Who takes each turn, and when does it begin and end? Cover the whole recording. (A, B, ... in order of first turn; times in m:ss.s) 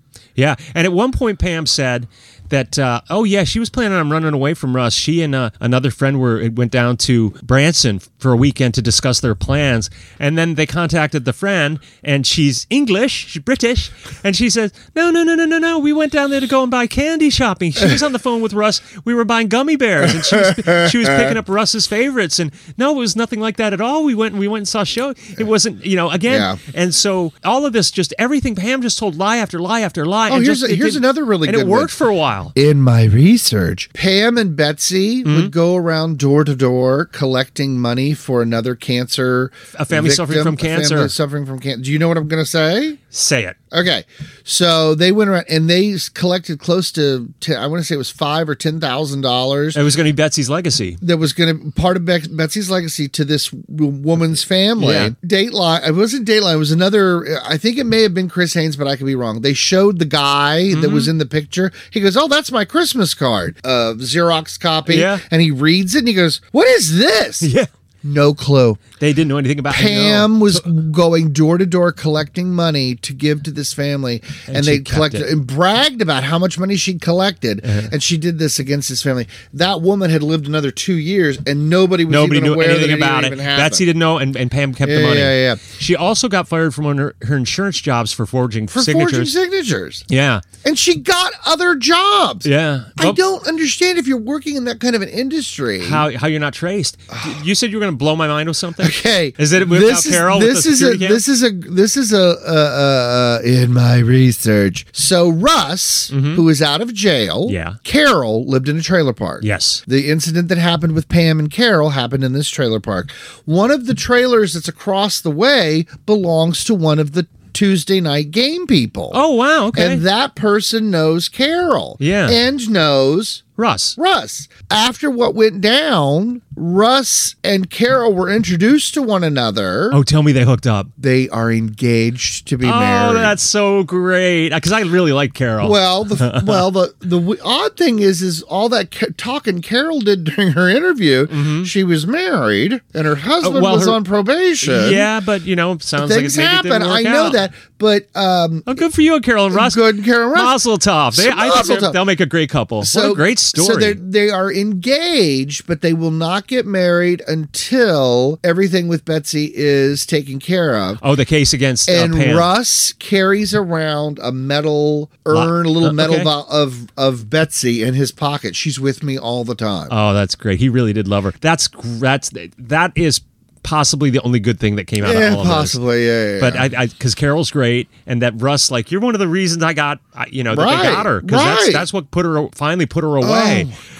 0:00.4-0:32.5 A
0:20.0-0:21.4 B
0:26.3-0:26.6 B
0:30.3-0:31.9 B
0:32.5-0:43.0 B
0:35.2-0:35.5 A
0:39.7-0:41.1 A
0:43.1-0:43.6 A
0:43.7-0:49.8 B
0:49.7-0:51.0 A
0:51.0-1:07.5 B
0:54.8-0:55.1 A
1:00.7-1:01.1 A
1:04.8-1:05.2 A
1:07.4-1:07.7 A
1:08.0-1:08.8 B
1:09.0-1:10.6 A
1:09.7-1:23.8 B
1:14.5-1:15.3 A
1:17.6-1:17.9 A
1:22.1-1:29.3 A
1:24.8-1:25.6 B
1:28.7-1:30.0 B
1:30.1-1:30.4 A
1:30.6-1:36.0 B
1:32.4-1:33.2 A
1:35.8-1:41.2 A
1:38.8-1:59.2 B
1:46.1-1:46.4 A
1:47.5-1:47.8 A
1:49.4-1:49.8 A
1:59.1-2:00.0 A
1:59.7-2:03.4 B
2:02.0-2:02.4 A
2:03.6-2:04.0 A
2:04.0-2:10.0 B
2:09.9-2:10.9 A
2:11.0-2:13.4 B
2:12.6-2:16.7 A
2:15.6-2:25.1 B
2:21.3-2:21.7 A
2:23.4-2:24.0 A
2:24.6-2:27.4 A
2:26.0-2:28.7 B
2:28.7-2:29.8 A
2:29.5-2:30.6 B
2:30.3-2:34.0 A
2:31.1-2:32.0 B
2:32.8-2:41.0 B
2:41.0-2:42.5 A
2:41.9-2:49.9 B
2:45.3-2:46.3 A
2:49.9-2:55.8 A
2:55.0-2:56.7 B
2:56.4-3:03.7 A
3:00.5-3:01.8 B
3:03.2-3:03.8 B